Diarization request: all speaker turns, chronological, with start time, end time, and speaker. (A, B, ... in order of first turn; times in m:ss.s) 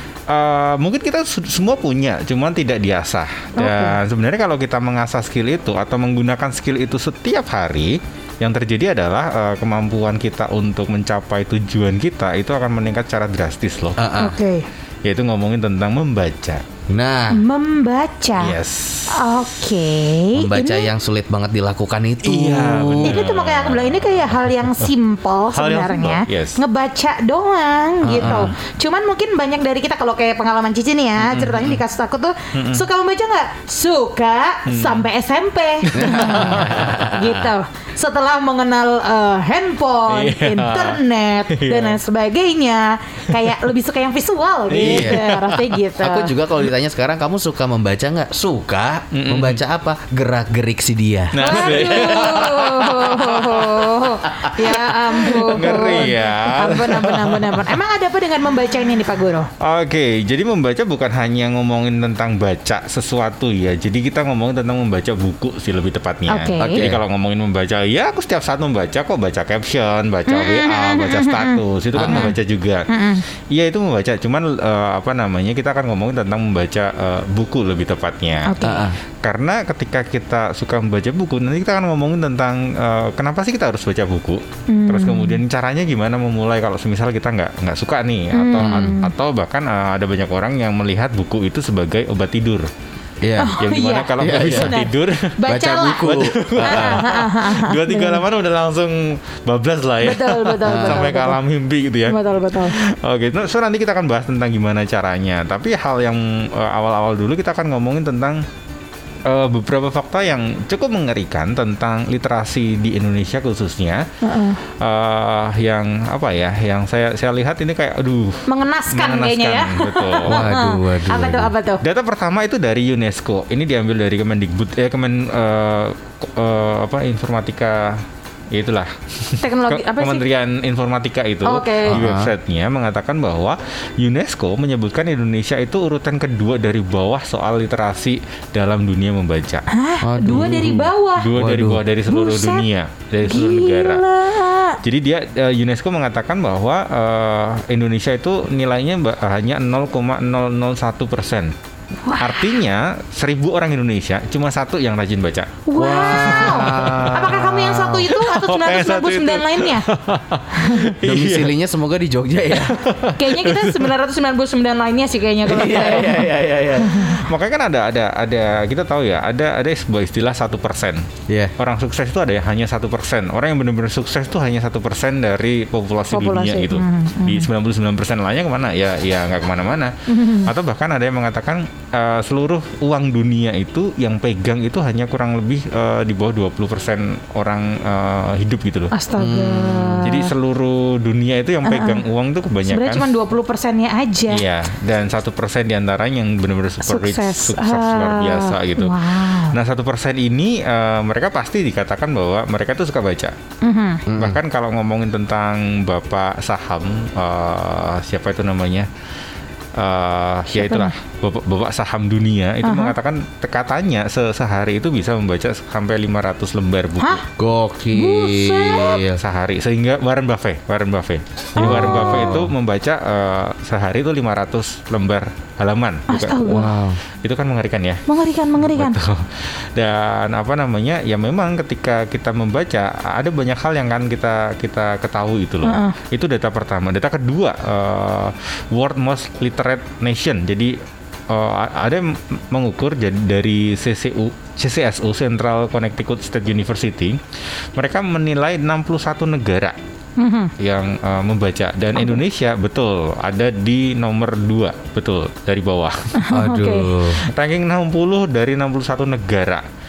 0:00.3-0:14.0 A
0:03.6-0:04.0 B
0:14.0-0:14.4 C
0:14.2-0:14.7 B
0:15.0-0:16.6 A
0:16.9-0:17.4 C
0:17.3-0:18.6 B
0:18.4-0:19.4 A
0:19.1-0:20.9 B
0:20.4-0:23.2 C
0:22.2-0:24.9 A
0:22.9-0:46.3 B
0:25.5-0:26.6 A
0:28.0-0:28.5 C
0:28.1-0:28.5 A
0:31.2-0:31.8 A
0:32.6-0:32.8 A
0:34.7-0:35.0 A
0:35.9-0:37.1 A
0:36.0-0:37.5 C
0:40.1-0:41.0 A
0:41.5-0:42.0 A
0:44.7-0:45.7 A
0:44.8-0:45.2 C
0:46.0-0:52.6 C
0:49.1-0:49.6 A
0:51.3-0:53.9 A
0:51.4-0:59.5 B
0:54.3-0:56.1 C
0:55.3-0:57.8 A
0:59.6-1:12.9 A
1:06.3-1:06.8 B
1:06.6-1:07.0 C
1:10.3-1:12.4 B
1:12.0-1:12.3 C
1:12.9-1:13.2 B
1:13.5-1:18.6 A
1:18.4-1:18.9 B
1:18.6-1:19.0 C
1:19.2-1:32.7 A
1:24.7-1:25.4 B
1:28.3-1:29.1 B
1:28.6-1:29.0 C
1:33.2-1:33.6 C
1:33.4-1:38.2 B
1:33.6-1:35.4 A
1:34.2-1:34.8 C
1:35.5-1:37.1 C
1:36.0-1:48.4 A
1:40.0-1:41.4 B
1:40.6-1:41.1 C
1:42.1-1:42.8 B
1:49.2-1:54.0 A
1:54.2-1:54.6 B
1:54.7-2:00.5 A
1:58.5-2:01.8 B
2:00.3-2:01.5 C
2:01.8-2:19.7 A
2:09.4-2:10.2 B
2:11.4-2:12.0 B
2:11.9-2:12.3 C
2:19.7-2:21.3 B
2:20.0-2:21.8 C
2:20.3-2:24.0 A
2:22.1-2:22.6 B
2:23.2-2:24.8 B
2:24.8-2:31.5 A
2:32.0-2:32.6 B
2:32.2-2:41.5 A
2:35.7-2:39.9 B
2:36.0-2:37.4 C
2:40.5-2:40.9 B
2:41.0-2:42.8 C
2:42.5-2:43.9 A
2:43.2-2:47.3 B
2:45.5-2:47.1 C
2:45.5-2:46.2 A
2:47.1-3:08.9 A
2:56.1-2:57.5 B
3:00.1-3:00.5 B
3:08.9-3:10.3 B
3:09.2-3:10.0 C
3:10.0-3:13.1 A
3:11.6-3:12.0 B
3:12.7-3:14.4 B
3:14.3-3:23.4 A
3:16.8-3:19.6 B
3:23.6-3:24.0 B
3:24.1-3:24.4 C
3:24.2-3:28.9 A
3:29.8-3:37.2 A
3:30.5-3:31.0 B
3:32.6-3:32.9 B
3:37.4-3:39.2 C
3:37.9-3:39.0 B
3:39.1-3:46.7 A
3:41.6-3:42.4 B
3:41.6-3:42.5 C
3:46.1-3:46.7 B
3:46.5-3:47.0 C
3:47.2-3:48.0 A
3:48.1-3:49.0 B
3:48.6-4:00.8 A
3:55.6-3:56.0 B
4:01.3-4:07.2 A
4:07.8-4:09.8 A
4:10.2-4:10.5 B
4:10.6-4:16.2 A
4:12.0-4:12.2 B
4:16.2-4:16.9 B
4:16.3-4:17.3 C
4:17.2-4:19.6 A